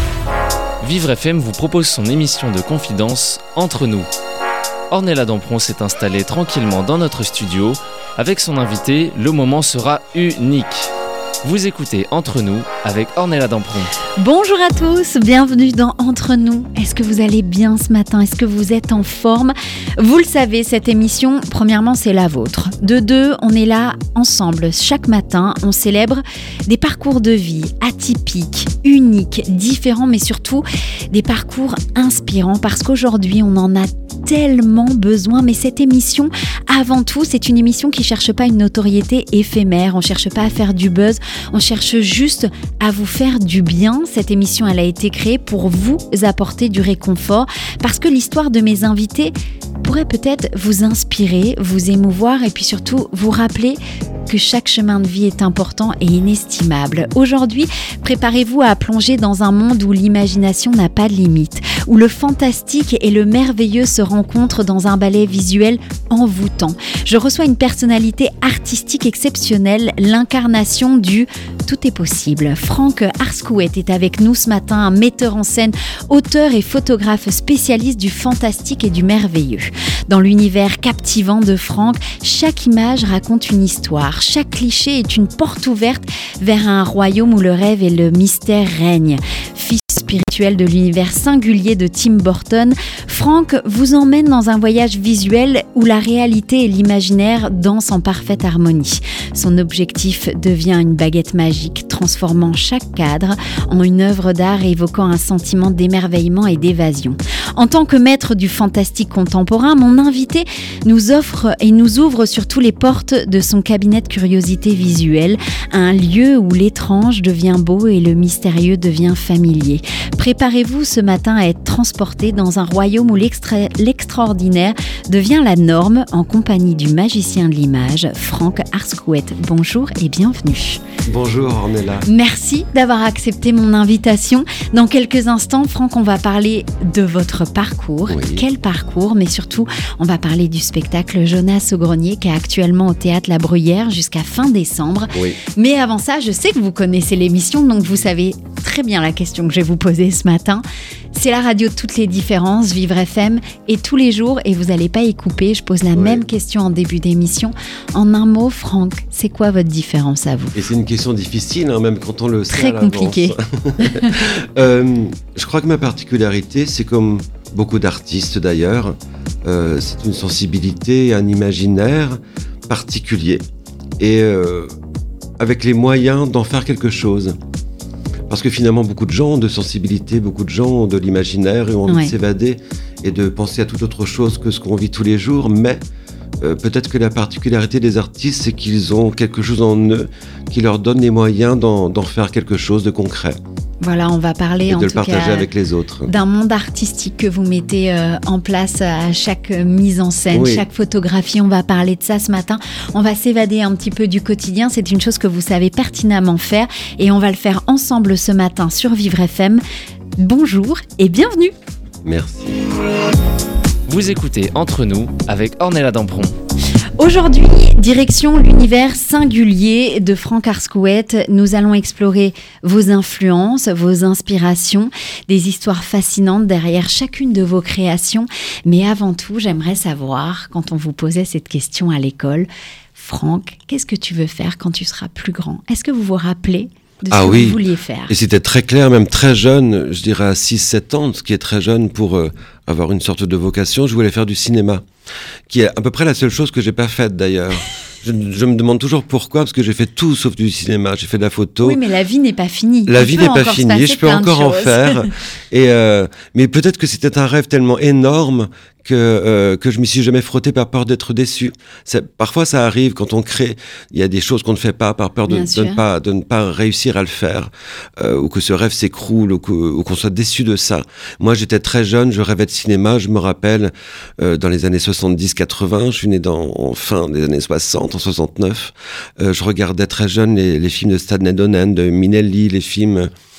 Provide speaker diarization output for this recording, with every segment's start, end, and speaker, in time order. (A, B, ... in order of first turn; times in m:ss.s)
0:00.8-0:04.1 A
0:04.9-0:10.9 A
0:11.4-0:13.9 A
0:14.2-2:10.8 B
2:11.1-2:12.1 C
2:12.1-2:40.6 B
2:18.1-2:18.4 C
2:25.1-2:25.4 C
2:35.9-2:36.2 C
2:40.5-2:53.4 C
2:42.5-2:44.2 B
2:54.0-2:54.7 C
2:55.4-2:57.4 C
2:58.3-3:05.8 C
3:01.9-3:02.1 B
3:06.4-3:13.4 C
3:13.8-3:15.5 B
3:14.7-3:16.1 C
3:16.1-3:29.6 B
3:20.3-3:20.6 C
3:30.2-3:31.5 B
3:32.0-3:32.6 C
3:33.9-3:36.4 A
3:37.0-3:58.1 B
3:57.1-4:04.8 C
4:05.5-4:11.8 C
4:11.6-4:15.1 B
4:12.9-4:43.1 C
4:25.3-4:25.8 B